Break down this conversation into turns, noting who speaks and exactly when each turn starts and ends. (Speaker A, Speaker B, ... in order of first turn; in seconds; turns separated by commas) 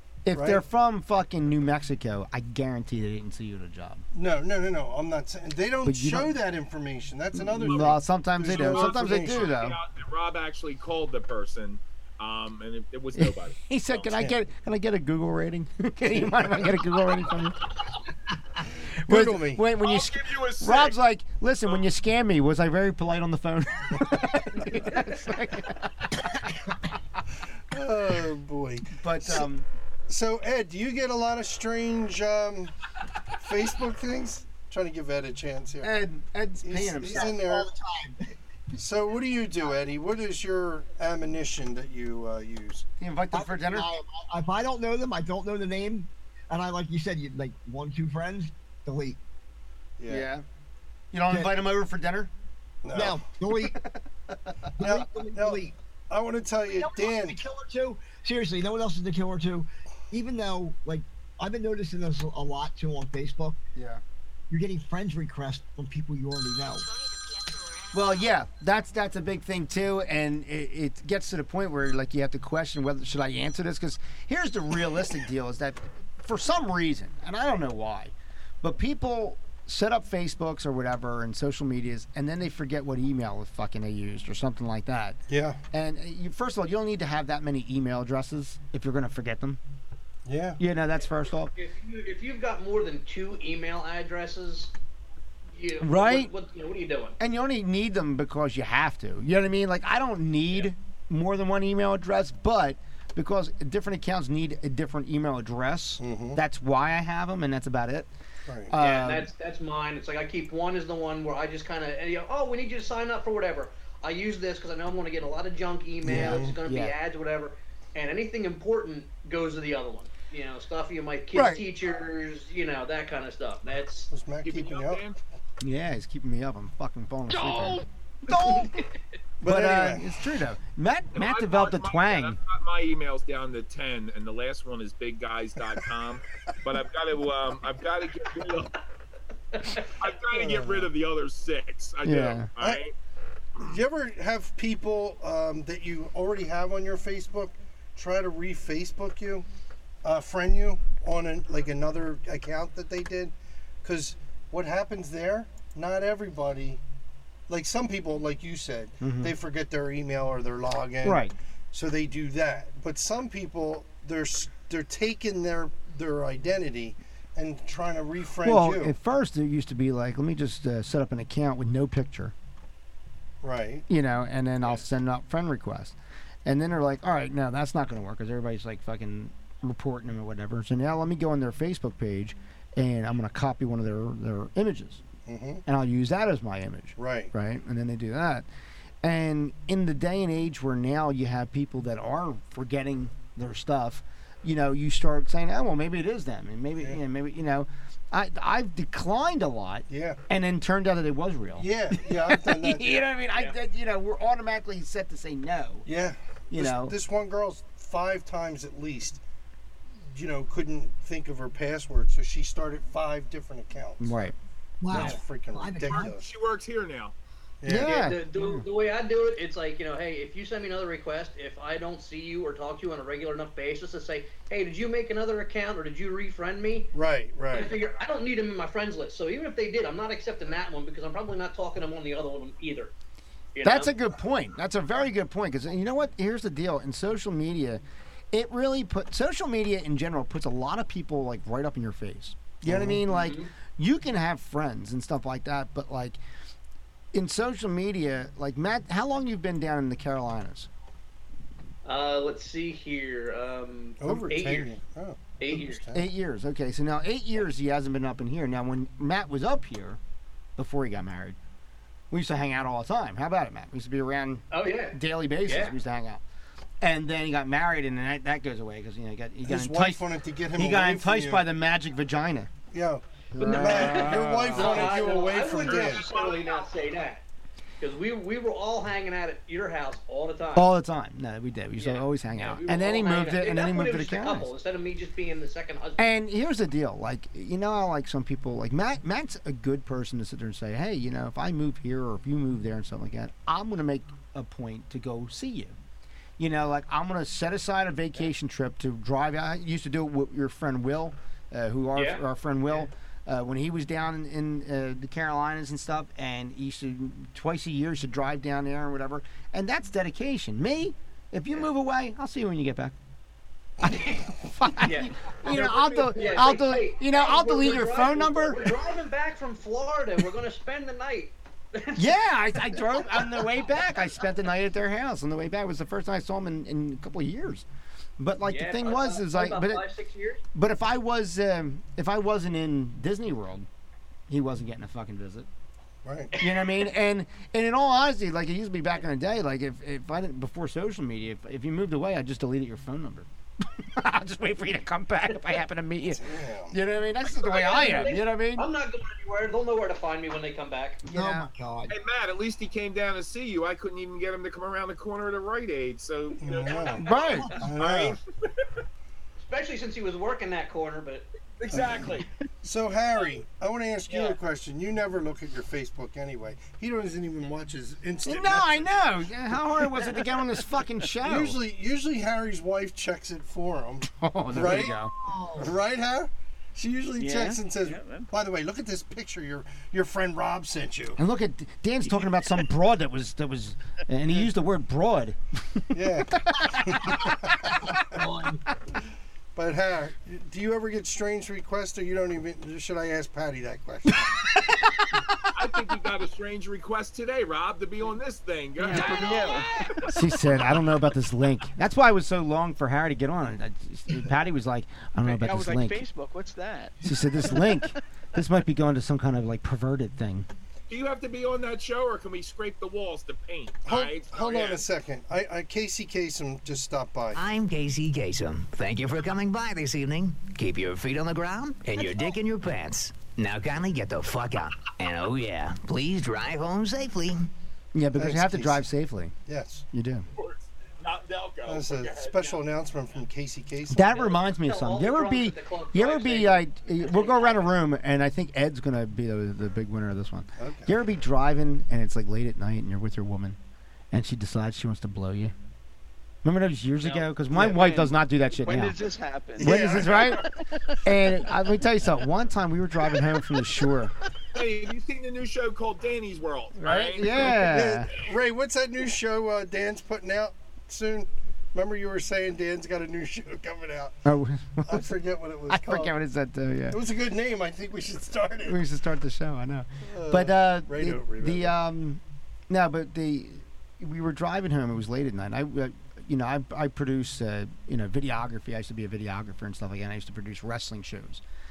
Speaker A: 0.2-4.0, Speaker B: 0.3-0.6, Speaker B: 4.1-9.4, Speaker A: 5.8-6.3, Speaker A: 7.3-9.8, Speaker C: 7.6-7.9, Speaker C: 8.5-14.1, Speaker A: 13.2-17.6, Speaker B: 19.1-19.6, Speaker A: 19.1-26.6, Speaker C: 19.8-20.9, Speaker B: 27.7-29.5, Speaker A: 28.9-29.7, Speaker B: 30.1-32.7, Speaker B: 33.4-35.9, Speaker A: 35.8-37.4, Speaker B: 36.6-37.7, Speaker D: 37.1-38.2, Speaker B: 38.8-42.9, Speaker A: 43.0-43.9, Speaker D: 43.3-49.2, Speaker B: 50.0-50.3, Speaker A: 50.1-50.5, Speaker A: 51.1-52.3, Speaker B: 52.8-53.3, Speaker D: 53.0-53.7, Speaker D: 54.8-55.8, Speaker B: 54.8-57.4, Speaker D: 56.7-63.6, Speaker A: 63.8-64.0, Speaker D: 64.5-66.9, Speaker A: 67.9-85.2, Speaker B: 85.3-85.6, Speaker A: 85.7-89.6, Speaker B: 90.2-90.6, Speaker A: 90.6-91.5, Speaker E: 91.5-94.7, Speaker E: 95.5-97.2, Speaker A: 95.8-96.3, Speaker A: 97.2-108.1, Speaker B: 106.0-106.4, Speaker B: 108.5-108.7, Speaker A: 108.7-109.3, Speaker E: 108.8-124.1, Speaker B: 116.0-116.5, Speaker A: 116.0-117.0, Speaker A: 121.3-121.6, Speaker B: 124.1-125.0, Speaker C: 124.4-125.2, Speaker A: 125.6-128.8, Speaker E: 128.3-128.7, Speaker B: 129.4-130.1, Speaker A: 129.4-132.4, Speaker C: 131.2-138.7, Speaker E: 139.6-139.8, Speaker C: 140.0-142.9, Speaker B: 140.3-140.9, Speaker A: 142.0-142.5, Speaker B: 143.6-149.5, Speaker B: 150.0-156.8, Speaker B: 157.5-168.9, Speaker A: 159.0-159.3, Speaker A: 161.0-161.3, Speaker A: 168.4-172.3, Speaker B: 173.4-173.9, Speaker A: 173.9-185.0, Speaker B: 185.3-185.6, Speaker A: 185.7-188.5, Speaker B: 187.0-187.3, Speaker A: 189.0-205.9, Speaker B: 199.9-200.2, Speaker B: 201.6-203.0, Speaker B: 205.9-209.2, Speaker A: 206.5-207.0, Speaker B: 210.1-214.2, Speaker A: 214.0-214.4, Speaker D: 214.8-216.1, Speaker A: 214.9-215.2, Speaker B: 214.9-216.3, Speaker C: 215.8-217.1, Speaker B: 217.6-217.9, Speaker A: 217.7-218.7, Speaker E: 217.8-226.9, Speaker B: 226.9-227.7, Speaker E: 227.5-232.9, Speaker E: 233.6-233.9, Speaker A: 233.6-246.2, Speaker B: 242.7-243.0, Speaker E: 243.1-243.5, Speaker A: 247.1-250.7, Speaker E: 251.8-254.8, Speaker B: 254.0-256.1, Speaker E: 255.4-255.8, Speaker A: 255.9-260.0, Speaker A: 260.6-261.4, Speaker A: 262.1-266.2, Speaker E: 264.5-265.8, Speaker A: 266.8-270.0, Speaker B: 269.4-271.4, Speaker A: 270.6-272.5, Speaker B: 272.7-276.1, Speaker A: 273.3-275.3, Speaker E: 273.4-277.2, Speaker C: 276.0-276.6, Speaker E: 277.8-280.7, Speaker A: 280.6-284.5, Speaker E: 281.8-286.1, Speaker A: 286.0-295.8, Speaker A: 296.4-312.9, Speaker E: 301.9-302.2, Speaker A: 313.8-318.7, Speaker E: 313.8-322.1, Speaker C: 315.5-316.4, Speaker A: 322.0-327.7, Speaker E: 322.7-323.5, Speaker A: 328.2-329.9, Speaker E: 328.5-330.4, Speaker A: 330.6-333.7, Speaker A: 334.3-335.5, Speaker B: 336.1-336.3, Speaker E: 336.3-336.7, Speaker A: 336.4-348.7, Speaker B: 346.1-346.8, Speaker E: 347.3-351.0, Speaker A: 351.1-351.5, Speaker D: 351.1-351.9, Speaker C: 351.9-358.1, Speaker B: 356.4-357.1, Speaker A: 357.0-357.5, Speaker B: 357.6-358.2, Speaker E: 359.4-361.2, Speaker C: 361.6-362.3, Speaker B: 361.7-368.9, Speaker E: 364.1-364.4, Speaker A: 368.2-371.6, Speaker B: 371.2-375.0, Speaker A: 374.1-375.1, Speaker D: 375.2-375.7, Speaker B: 375.6-381.2, Speaker F: 377.2-378.3, Speaker A: 381.2-387.3, Speaker B: 385.9-388.2, Speaker B: 389.6-394.6, Speaker A: 394.6-395.2, Speaker C: 395.5-400.8, Speaker F: 398.9-399.7, Speaker A: 400.1-406.1, Speaker F: 405.2-407.9, Speaker A: 407.0-410.5, Speaker C: 410.9-414.8, Speaker B: 413.9-417.4, Speaker G: 417.4-427.5, Speaker A: 427.9-429.3, Speaker B: 428.2-428.9, Speaker B: 429.5-429.9, Speaker A: 429.9-430.3, Speaker C: 430.4-432.6, Speaker B: 431.7-434.3, Speaker A: 433.9-443.6, Speaker E: 434.4-437.7, Speaker B: 440.6-440.9, Speaker A: 444.1-445.6, Speaker A: 446.4-449.0, Speaker F: 447.6-451.1, Speaker A: 449.6-450.5, Speaker B: 449.6-450.4, Speaker A: 451.0-454.1, Speaker C: 454.5-457.6, Speaker A: 456.8-458.1, Speaker B: 457.6-464.2, Speaker A: 464.2-465.1, Speaker B: 464.9-466.1, Speaker A: 465.7-467.0, Speaker B: 466.9-468.8, Speaker A: 468.6-481.4, Speaker B: 470.1-471.7